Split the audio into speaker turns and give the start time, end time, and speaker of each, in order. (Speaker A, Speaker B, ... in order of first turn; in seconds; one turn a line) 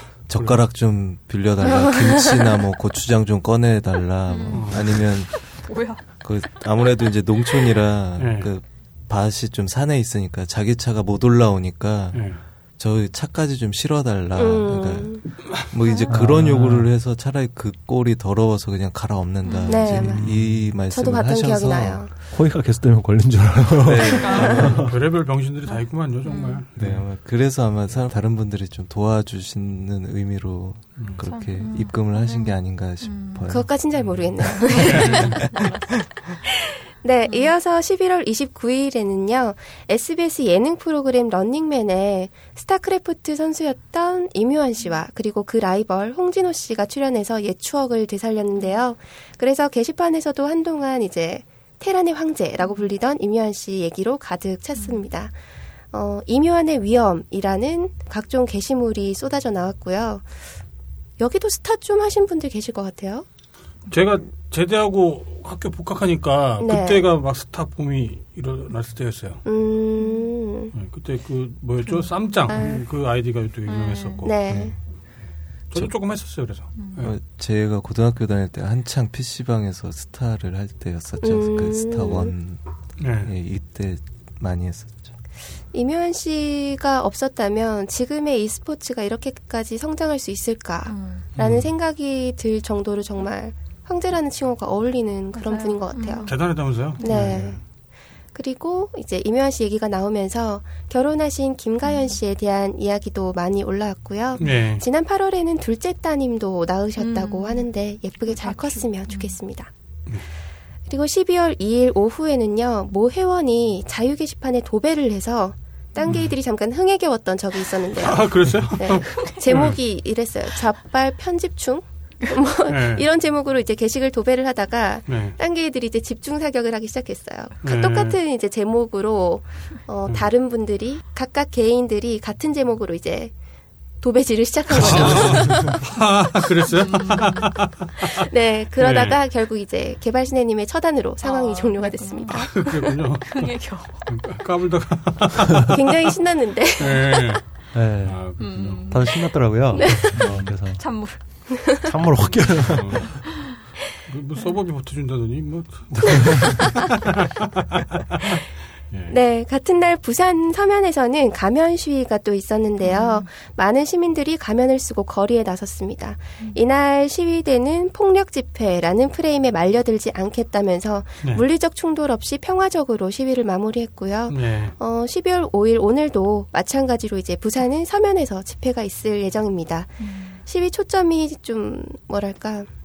Speaker A: 0.3-5.6
Speaker B: 0.3-0.6
Speaker C: 1.7-2.3
Speaker D: 4.3-6.0
Speaker B: 4.5-5.0
Speaker A: 6.2-22.1
Speaker B: 8.2-8.5
Speaker B: 12.1-12.4
Speaker C: 14.4-15.2
Speaker D: 15.8-16.2
Speaker E: 16.1-16.8
Speaker B: 16.6-16.8
Speaker D: 19.4-19.9
Speaker C: 19.7-20.3
Speaker E: 19.9-20.3
Speaker B: 19.9-20.4
Speaker C: 20.9-22.1
Speaker E: 22.3-24.9
Speaker A: 23.8-24.9
Speaker D: 24.0-24.8
Speaker C: 24.4-24.6
Speaker B: 24.6-27.1
Speaker D: 25.7-26.7
Speaker A: 26.8-33.9
Speaker B: 31.0-31.2
Speaker D: 31.2-33.6
Speaker C: 33.5-35.5
Speaker B: 34.0-34.2
Speaker B: 34.8-35.4
Speaker D: 34.9-36.0
Speaker C: 36.4-55.3
Speaker D: 37.3-37.5
Speaker D: 54.8-55.0
Speaker C: 55.9-60.3
Speaker C: 61.2-63.3
Speaker B: 63.9-69.4
Speaker C: 66.6-67.1
Speaker C: 69.5-70.7
Speaker D: 70.0-70.3
Speaker B: 70.7-74.4
Speaker C: 72.5-72.8
Speaker D: 73.7-74.4
Speaker C: 74.2-74.8
Speaker A: 74.5-74.8
Speaker B: 75.7-77.2
Speaker D: 76.8-77.1
Speaker A: 77.0-82.6
Speaker C: 81.2-82.3
Speaker B: 83.0-83.3
Speaker A: 83.2-85.1
Speaker C: 85.7-96.3
Speaker D: 90.9-91.3
Speaker B: 91.4-91.7
Speaker D: 95.3-96.4
Speaker B: 96.2-97.6
Speaker D: 97.0-97.3
Speaker C: 97.0-97.6
Speaker C: 98.3-109.7
Speaker D: 101.8-102.2
Speaker B: 104.4-104.8
Speaker D: 107.0-107.7
Speaker D: 108.3-109.4
Speaker C: 110.9-133.3
Speaker B: 116.0-116.3
Speaker B: 118.0-119.8
Speaker B: 122.7-123.1
Speaker B: 125.1-125.4
Speaker B: 127.6-128.2
Speaker C: 134.0-135.8
Speaker B: 134.8-138.2
Speaker E: 134.8-135.8
Speaker D: 136.7-137.6
Speaker C: 138.1-143.0
Speaker B: 138.8-139.2
Speaker D: 141.2-142.6
Speaker B: 142.3-143.5
Speaker D: 143.3-144.2
Speaker B: 144.1-145.8
Speaker C: 145.7-147.4
Speaker B: 146.8-147.4
Speaker E: 147.7-148.3
Speaker B: 148.1-148.8
Speaker D: 148.4-150.0
Speaker E: 148.8-150.8
Speaker C: 149.8-150.2
Speaker B: 150.2-150.5
Speaker D: 150.8-151.2
Speaker C: 151.6-151.8
Speaker E: 151.8-153.2
Speaker B: 152.2-153.1
Speaker D: 153.2-153.6
Speaker B: 154.1-159.2
Speaker E: 156.0-156.7
Speaker C: 159.1-182.7
Speaker D: 162.8-163.3
Speaker B: 174.3-174.8
Speaker D: 180.0-180.4